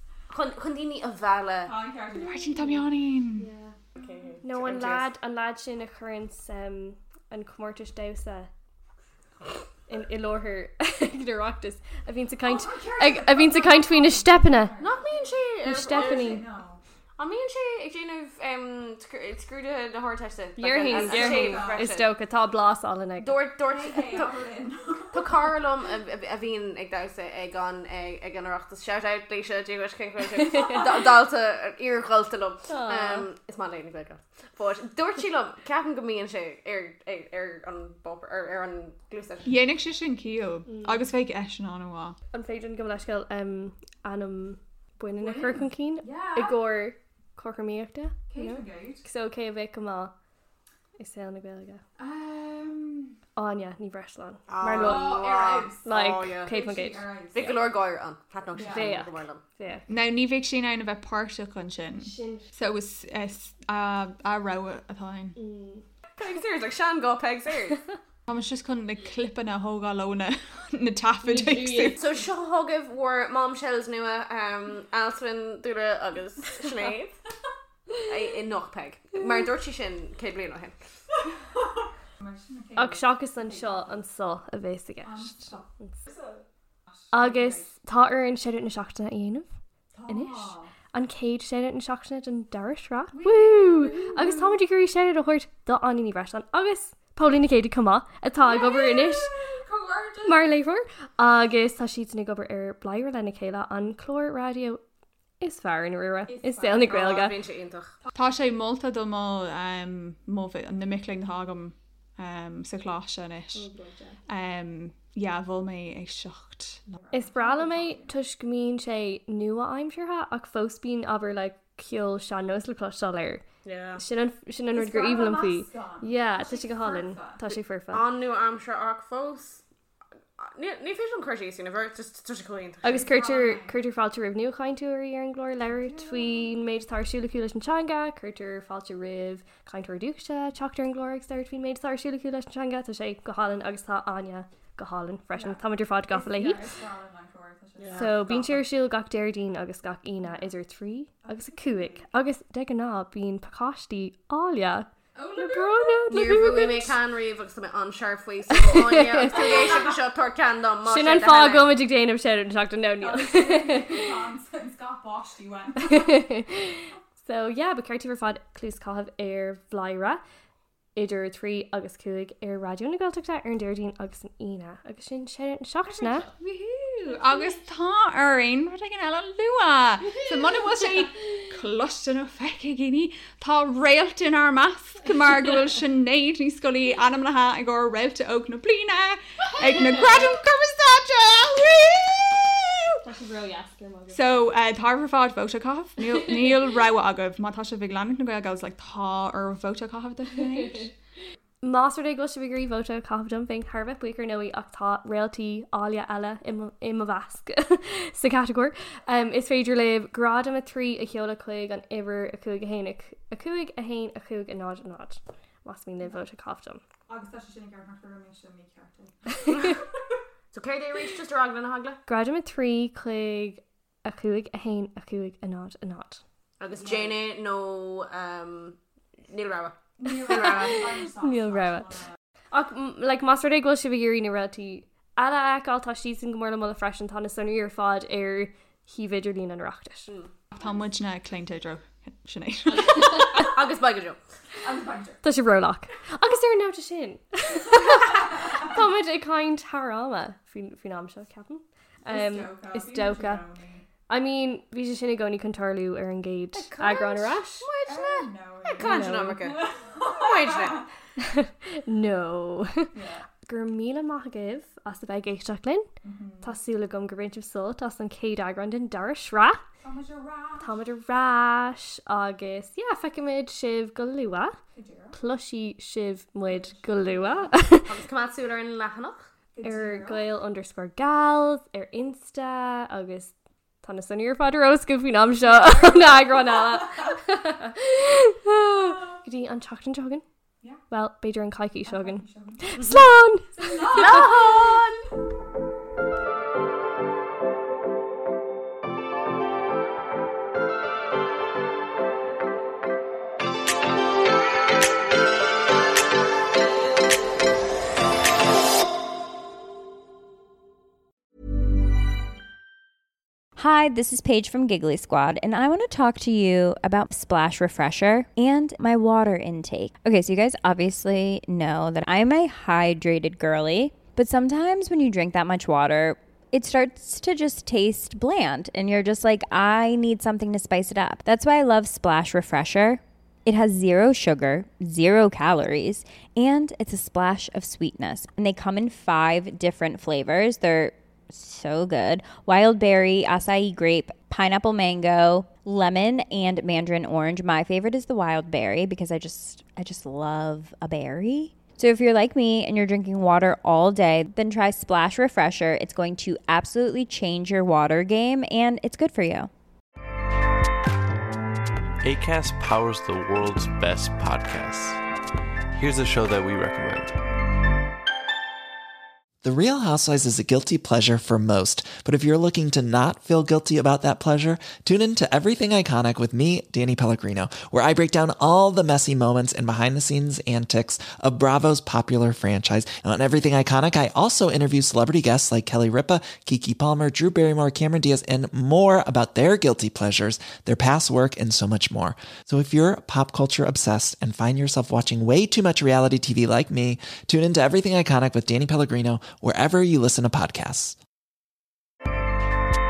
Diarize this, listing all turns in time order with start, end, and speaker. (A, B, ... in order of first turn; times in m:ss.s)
0:00.3-0:01.7 A
0:01.6-0:04.2 B
0:02.2-0:03.7 C
0:04.0-0:05.1 A
0:04.4-0:08.5 C
0:09.9-0:14.8 C
0:12.4-0:16.8 B
0:14.8-0:16.4 A
0:15.6-0:16.4 C
0:17.2-0:22.1 A
0:20.6-0:23.4 C
0:20.7-0:21.8 B
0:23.2-0:24.4 A
0:23.7-0:25.6 B
0:25.1-0:39.5 A
0:30.4-0:30.8 C
0:32.7-0:33.3 C
0:39.4-0:42.2 B
0:40.7-0:41.0 C
0:42.3-0:50.1 C
0:45.2-0:46.6 B
0:48.3-0:49.0 B
0:51.0-0:51.8 C
0:52.0-0:53.2 B
0:53.4-0:55.2 C
0:54.5-0:56.5 A
0:54.7-0:55.8 B
0:55.8-0:57.5 C
0:56.4-0:57.5 B
0:57.3-0:59.4 A
0:58.5-0:58.9 B
0:58.7-0:59.8 C
0:59.9-1:05.4 B
1:02.0-1:02.5 C
1:05.3-1:05.8 C
1:06.2-1:07.8 A
1:08.3-1:12.0 B
1:11.2-1:12.0 C
1:12.0-1:17.1 A
1:18.1-1:20.7 A
1:22.2-1:24.0 B
1:22.7-1:26.0 C
1:25.0-1:27.7 B
1:27.1-1:29.4 C
1:29.9-1:30.7 B
1:30.1-1:39.3 C
1:33.1-1:34.5 B
1:38.4-1:40.5 B
1:40.2-1:44.8 C
1:45.4-1:47.3 C
1:46.3-1:47.0 B
1:46.9-1:47.9 A
1:48.1-1:53.7 B
1:53.5-1:54.2 C
1:54.3-1:58.1 B
1:57.1-2:03.4 C
2:03.6-2:04.0 A
2:04.0-2:08.0 C
2:04.7-2:07.4 B
2:07.9-2:09.6 A
2:10.4-2:13.0 A
2:12.8-2:26.7 C
2:12.9-2:13.8 B
2:15.8-2:16.5 B
2:25.4-2:28.4 B
2:27.8-2:28.5 A
2:27.9-2:36.9 C
2:31.2-2:32.0 B
2:35.1-2:36.1 B
2:36.1-2:41.8 A
2:38.5-2:39.7 C
2:39.2-2:39.8 B
2:40.8-2:44.2 C
2:43.0-2:46.3 B
2:45.8-2:50.2 C
2:50.9-2:56.3 C
2:55.9-3:13.0 B
3:13.0-3:14.5 C
3:14.1-3:20.9 B
3:16.1-3:16.5 C
3:20.3-3:20.9 C
3:21.6-3:36.8 C
3:37.1-3:39.8 B
3:40.5-3:42.0 A
3:42.1-3:46.2 C
3:46.6-3:48.8 A
3:46.7-3:47.1 B
3:49.3-3:50.8 A
3:50.0-3:52.2 B
3:50.2-3:51.9 C
3:52.5-4:00.1 C
4:00.5-4:03.5 B
4:02.8-4:04.2 A
4:02.8-4:03.3 C
4:04.6-4:05.2 B
4:05.2-4:13.4 C
4:07.9-4:08.7 B
4:12.1-4:13.8 B
4:14.1-4:17.6 C
4:16.5-4:17.2 B
4:17.6-4:20.8 A
4:17.8-4:20.9 B
4:18.8-4:19.4 C
4:21.2-4:25.9 C
4:22.9-4:23.3 B
4:26.0-4:26.5 B
4:26.4-4:29.6 C
4:29.8-4:30.8 B
4:30.6-4:34.6 C
4:34.7-4:35.2 B
4:35.1-4:37.9 C
4:36.5-4:37.6 B
4:37.8-4:39.3 A
4:39.5-4:40.3 B
4:39.6-4:50.2 C
4:45.4-4:47.2 B
4:48.7-4:49.2 B
4:50.9-4:54.5 C
4:51.9-4:52.6 B
4:52.8-4:53.0 A
4:53.5-4:54.5 B
4:53.9-4:55.1 A
5:13.6-5:59.5 D
6:02.0-6:05.0 E
6:05.7-6:07.2 E
6:09.4-6:41.0 F